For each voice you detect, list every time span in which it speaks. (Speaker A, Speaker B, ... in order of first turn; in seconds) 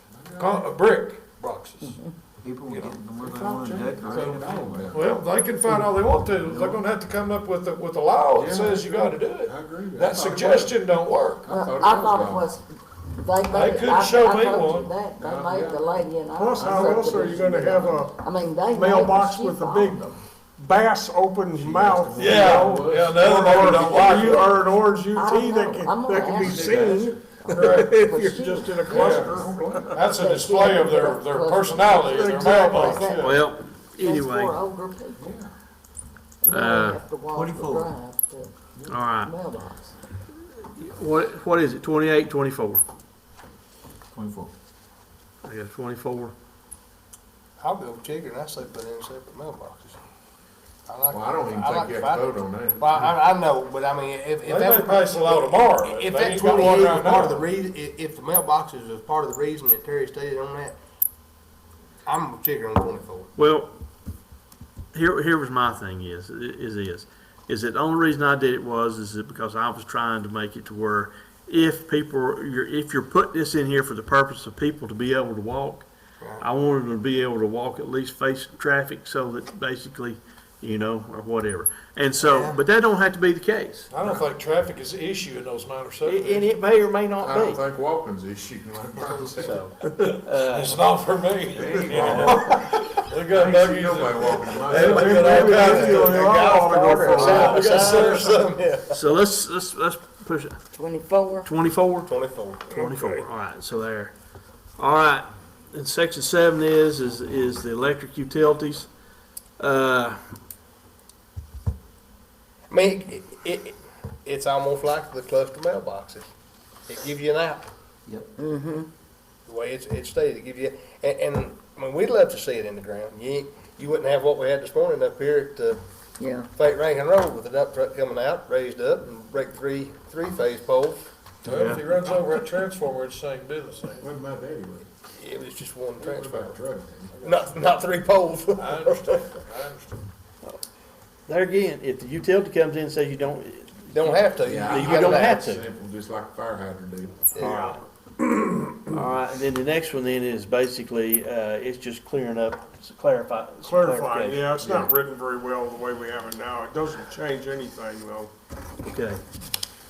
Speaker A: 0.1-0.7, 3.2-5.1, 8.3-10.8, 11.4-12.5, 15.2-16.0, 16.6-17.4, 21.6-23.4, 26.4-27.9, 28.9-30.0, 35.2-35.5, 51.1-53.1, 87.2-89.7, 91.5-92.7, 93.3-95.2, 134.0-134.9, 136.0-137.4, 144.4-147.2, 154.6-154.9
Speaker B: 0.4-2.0, 2.7-3.0, 4.9-11.5, 13.5-14.9, 22.2-24.6, 28.9-29.3, 29.9-33.1, 54.5-57.5, 82.2-82.5, 83.9-86.5, 90.4-96.2, 97.0-98.5, 131.4-134.1, 138.6-140.0
Speaker C: 1.9-2.1, 11.5-20.1, 25.0-33.4, 34.0-35.2, 36.4-38.5, 39.1-39.9, 100.7-101.5, 118.4-118.9, 126.2-126.5
Speaker D: 2.4-4.9, 6.4-6.9, 37.4-37.9, 44.1-44.5
Speaker E: 16.4-29.9, 32.1-33.4, 94.7-98.1, 153.6-158.3
Speaker F: 33.1-34.6, 36.5-37.0, 38.9-39.4, 40.6-42.8, 45.4-46.3, 63.4-63.7, 64.9-75.8, 76.4-83.9, 86.0-87.6, 89.0-90.8, 91.9-92.4, 98.9-100.6, 101.4-102.1, 102.7-104.1, 104.8-108.9, 109.6-110.2, 131.5-131.8, 141.3-145.7, 147.4-147.8, 148.9-154.5, 158.8-159.2
Speaker G: 47.6-50.0, 50.9-60.8, 62.0-63.3, 94.8-99.0, 102.1-103.2, 112.7-116.3, 116.9-117.7, 119.5-125.8, 126.5-131.1, 135.2-136.6, 137.2-139.3, 143.9-145.4, 147.3-147.8